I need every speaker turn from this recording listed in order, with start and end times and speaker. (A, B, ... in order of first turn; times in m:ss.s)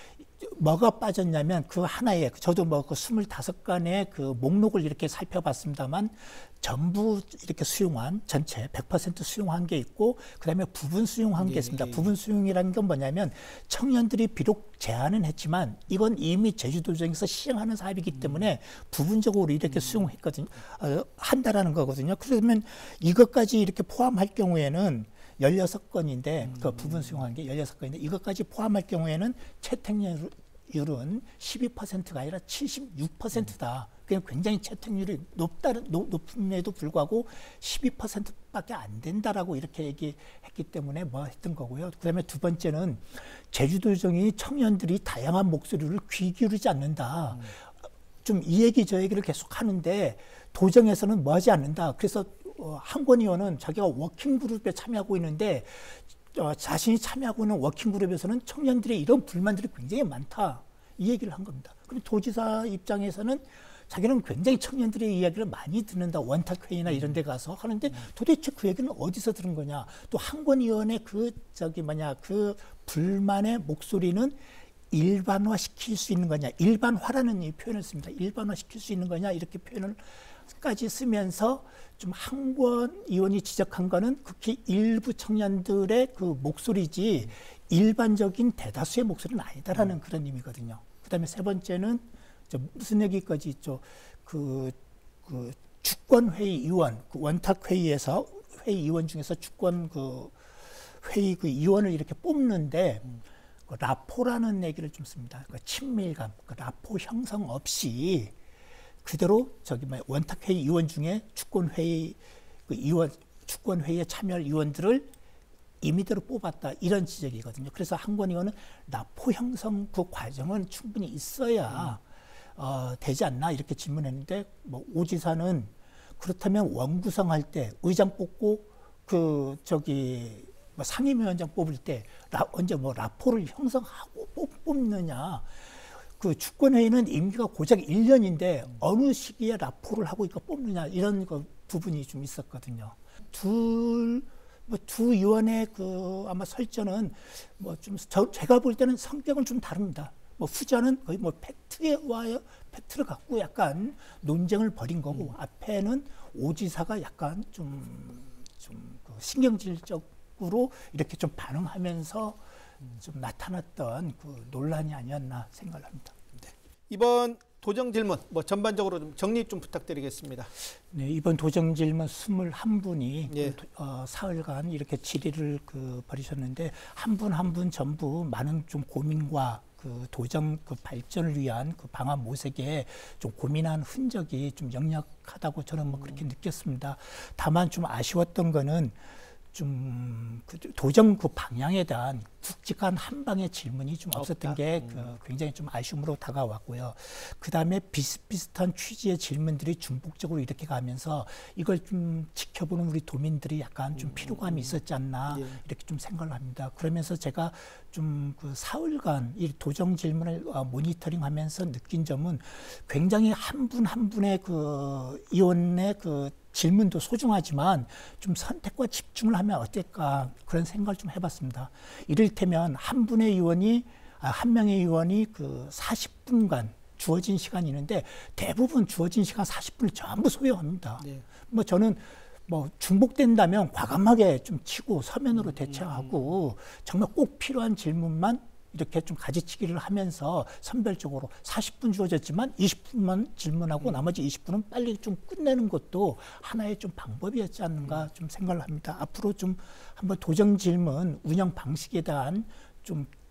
0:00.2-0:47.7 A
0:11.4-0:12.1 B
0:18.1-0:18.4 B
0:19.7-0:20.1 B
0:26.4-0:27.2 B
0:48.2-1:14.4 A
1:14.9-1:43.1 A
1:43.7-1:48.3 A
1:49.0-1:55.1 A
1:55.8-2:02.0 A
2:01.7-2:02.0 B
2:02.6-2:42.4 A
2:43.0-2:46.1 A
2:46.4-2:50.5 B
2:50.9-3:09.0 A
2:53.3-2:53.6 B
3:05.9-3:06.2 B
3:09.5-4:13.1 A
3:14.1-3:15.1 B
3:24.0-3:24.8 B
3:25.3-3:25.6 B
3:51.0-3:51.2 B
3:55.4-3:56.2 B